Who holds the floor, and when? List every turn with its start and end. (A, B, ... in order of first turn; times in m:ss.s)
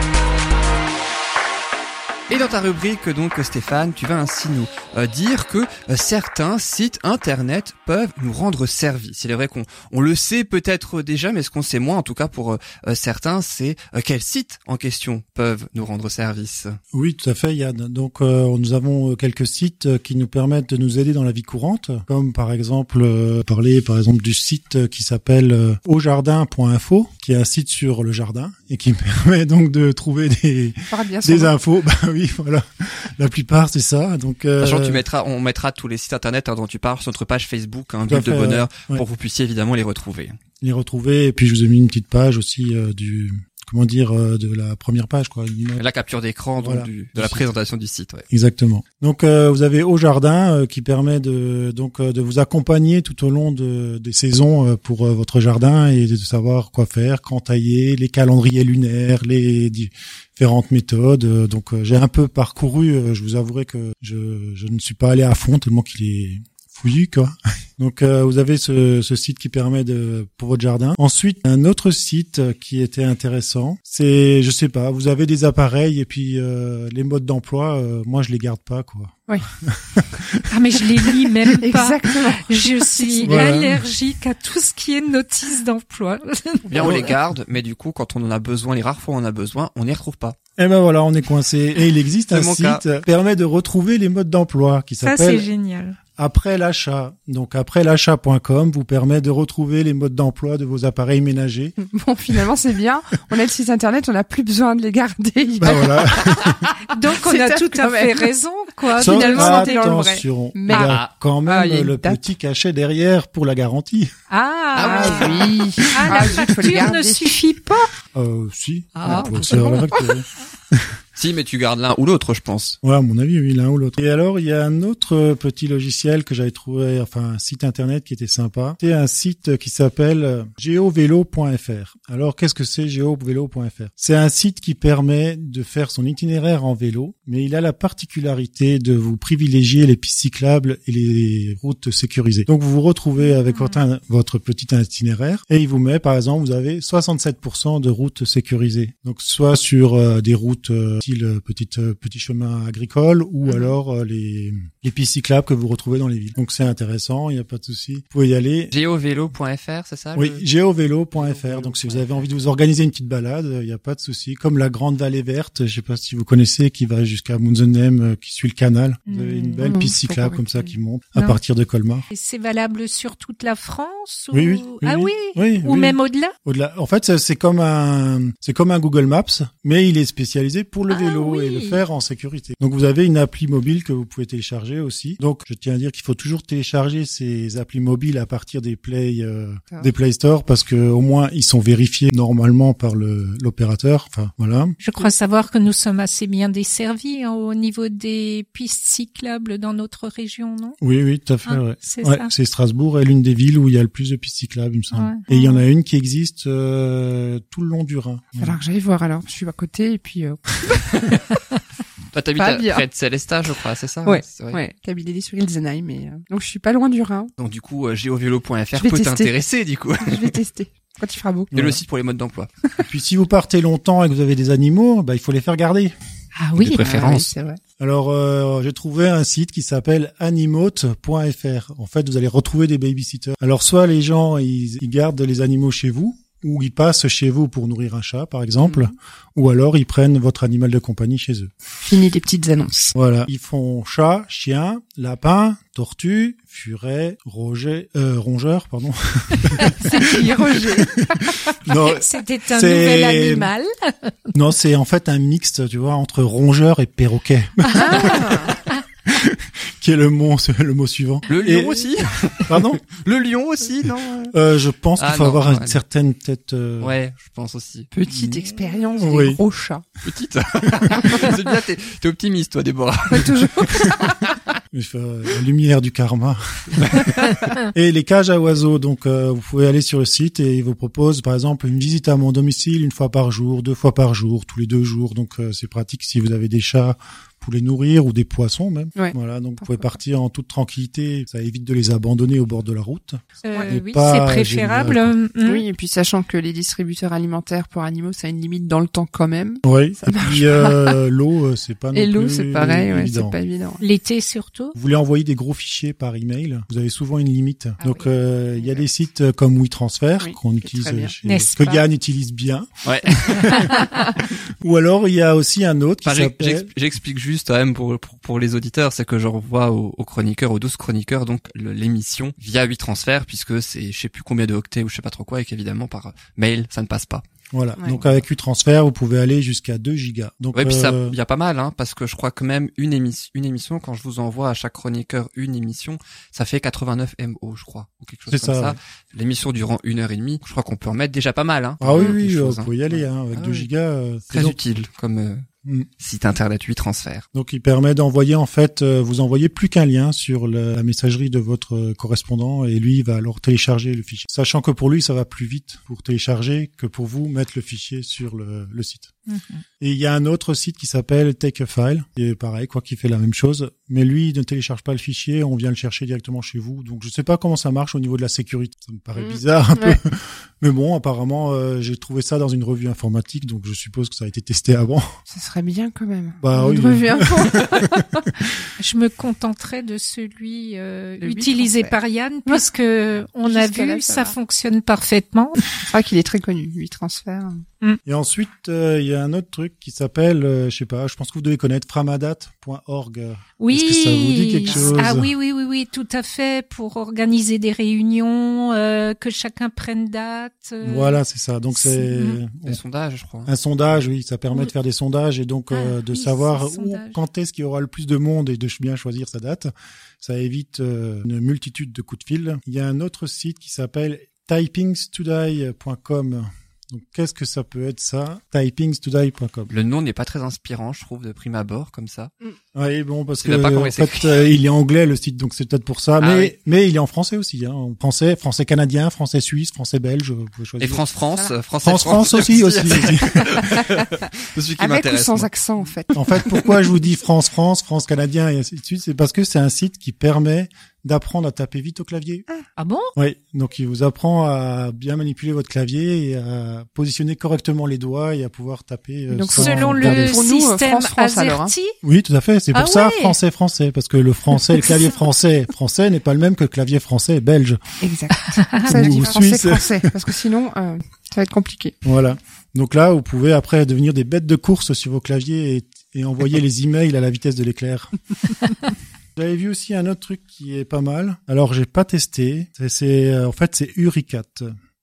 0:02.3-0:16.8 A
0:16.9-0:35.0 B
0:30.9-0:31.5 C
0:34.6-0:40.4 A
0:38.0-0:39.0 B
0:40.6-0:45.8 B
0:45.8-0:48.2 A
0:46.6-0:47.5 B
0:48.3-1:21.5 B
1:20.5-1:27.1 D
1:21.6-1:23.6 C
1:23.2-1:23.8 B
1:26.7-1:30.4 A
1:26.8-1:27.2 B
1:30.6-1:35.5 B
1:32.3-1:32.8 A
1:35.0-1:36.0 D
1:36.2-1:41.8 B
1:41.8-1:48.3 C
1:45.6-1:46.7 B
1:46.9-1:50.0 D
1:48.9-1:52.2 C
1:49.0-1:54.1 B
1:50.8-1:51.1 A
1:54.3-1:57.9 D
1:54.7-1:55.6 A
1:54.8-1:57.4 C
1:58.1-2:00.8 B
1:59.0-2:00.2 C
2:01.1-2:02.8 A
2:02.8-2:38.7 B
2:23.2-2:23.8 D
2:38.7-2:40.4 A
2:40.1-2:52.0 B
2:41.1-2:42.3 A
2:49.1-2:51.4 D
2:49.6-2:49.9 C
2:52.1-2:56.3 D
2:54.3-3:14.8 B
3:00.9-3:01.8 D
3:14.8-3:20.8 D
3:20.8-3:28.6 B
3:21.4-3:22.3 D
3:24.9-3:25.6 D
3:28.4-3:31.2 C
3:32.1-3:34.6 A
3:32.3-3:32.8 C
3:34.0-3:37.3 C
3:37.4-3:40.4 A
3:38.8-3:39.4 C
3:40.0-3:41.5 C
3:41.5-3:41.8 B
3:41.5-3:42.5 A
3:42.8-3:45.9 B
3:46.4-3:47.1 D
3:46.6-3:47.3 A
3:46.8-3:47.6 C
3:47.8-4:01.5 B
4:01.8-4:02.9 C
4:03.0-4:10.2 B
4:09.8-4:11.5 C
4:11.1-4:13.5 B
4:11.7-4:14.1 D
4:14.3-4:18.5 B
4:17.7-4:18.6 C
4:19.0-4:21.9 B
4:21.3-4:23.9 A
4:22.5-4:22.8 B
4:23.8-4:24.3 C
4:24.3-4:27.0 B
4:25.0-4:25.8 A
4:26.8-4:27.9 A
4:27.9-4:29.8 C
4:28.1-4:29.4 B
4:30.0-4:34.4 A
4:33.1-4:34.2 C
4:34.7-4:55.1 B
4:49.0-4:49.9 C
4:53.4-4:55.6 D
4:55.4-5:01.0 C
4:59.6-5:03.3 B
5:01.9-5:03.8 C
5:03.8-5:04.7 D
5:04.7-5:16.7 B
5:07.8-5:08.1 D
5:10.2-5:11.8 C
5:11.2-5:11.5 D
5:12.8-5:13.3 A
5:16.0-5:27.2 A
5:27.5-5:31.2 B
5:30.5-5:43.7 A
5:38.3-5:38.8 B
5:41.8-5:44.6 B
5:44.3-5:45.4 A
5:46.0-5:47.2 A
5:47.3-5:59.1 B
5:59.3-5:59.6 D
5:59.8-6:15.0 B
6:09.2-6:10.0 C
6:15.3-6:18.2 C
6:16.4-6:17.8 B
6:18.8-6:25.6 D
6:21.2-6:22.6 C
6:23.4-6:24.3 C
6:25.8-6:27.6 C
6:28.0-6:35.3 B
6:33.6-6:41.2 D
6:34.6-6:35.1 C
6:40.8-6:42.8 B
6:41.7-6:42.4 D
6:42.6-6:43.5 A
6:43.4-6:49.7 B
6:45.7-6:47.2 D
6:50.2-6:59.7 B
6:59.7-7:02.3 A
7:02.7-7:11.1 B
7:03.4-7:04.3 A
7:06.2-7:06.5 A
7:10.8-7:15.5 A
7:11.8-7:14.0 B
7:14.8-7:16.7 C
7:16.1-7:22.4 B
7:22.8-7:23.1 D
7:23.2-7:30.4 B
7:29.3-7:31.7 C
7:29.5-7:31.9 D
7:32.0-7:37.8 B
7:32.7-7:33.4 D
7:38.0-7:42.0 C
7:38.6-7:39.3 D
7:38.8-7:40.3 B
7:42.0-7:48.8 B
7:49.4-7:54.7 B